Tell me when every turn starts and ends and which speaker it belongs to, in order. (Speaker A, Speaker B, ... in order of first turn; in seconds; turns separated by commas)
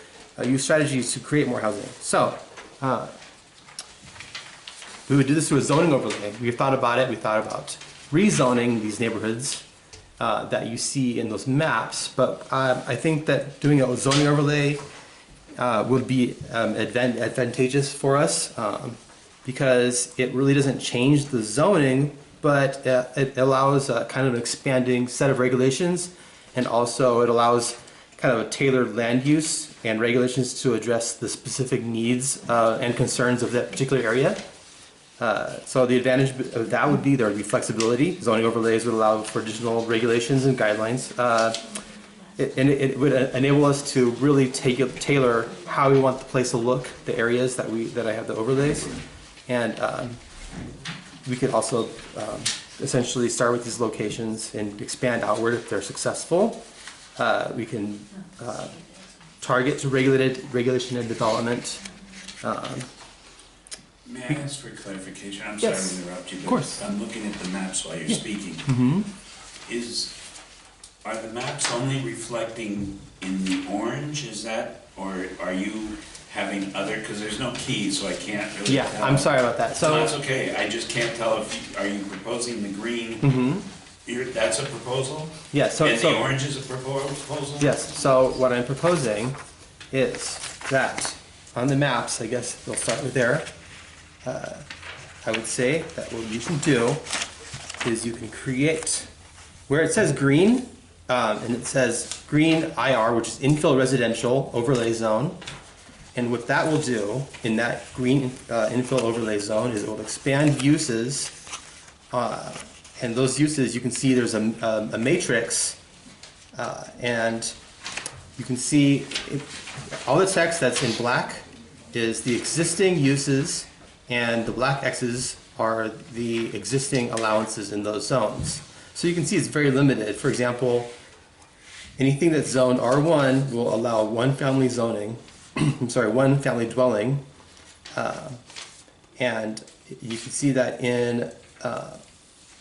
Speaker A: 0.4-3.1, Speaker A: 5.1-9.6, Speaker A: 10.2-14.8, Speaker A: 15.6-34.4, Speaker A: 35.2-41.6, Speaker A: 42.4-50.2, Speaker A: 51.3-56.6, Speaker A: 57.2-58.8, Speaker A: 59.4-61.8, Speaker A: 62.4-62.9, Speaker B: 64.0-68.7, Speaker A: 65.6-66.8, Speaker A: 68.1-69.1, Speaker B: 69.7-70.2, Speaker B: 71.0-83.3, Speaker A: 78.7-80.2, Speaker A: 83.2-83.7, Speaker B: 84.0-87.8, Speaker A: 85.5-86.2, Speaker A: 87.6-89.4, Speaker A: 89.9-93.5, Speaker A: 94.2-94.7, Speaker A: 95.2-97.0, Speaker A: 97.8-99.1, Speaker A: 99.7-105.4, Speaker A: 106.2-111.3, Speaker A: 112.1-115.8, Speaker A: 116.5-117.5, Speaker A: 118.4-130.9, Speaker A: 132.0-137.2, Speaker A: 137.9-138.4, Speaker A: 139.2-142.0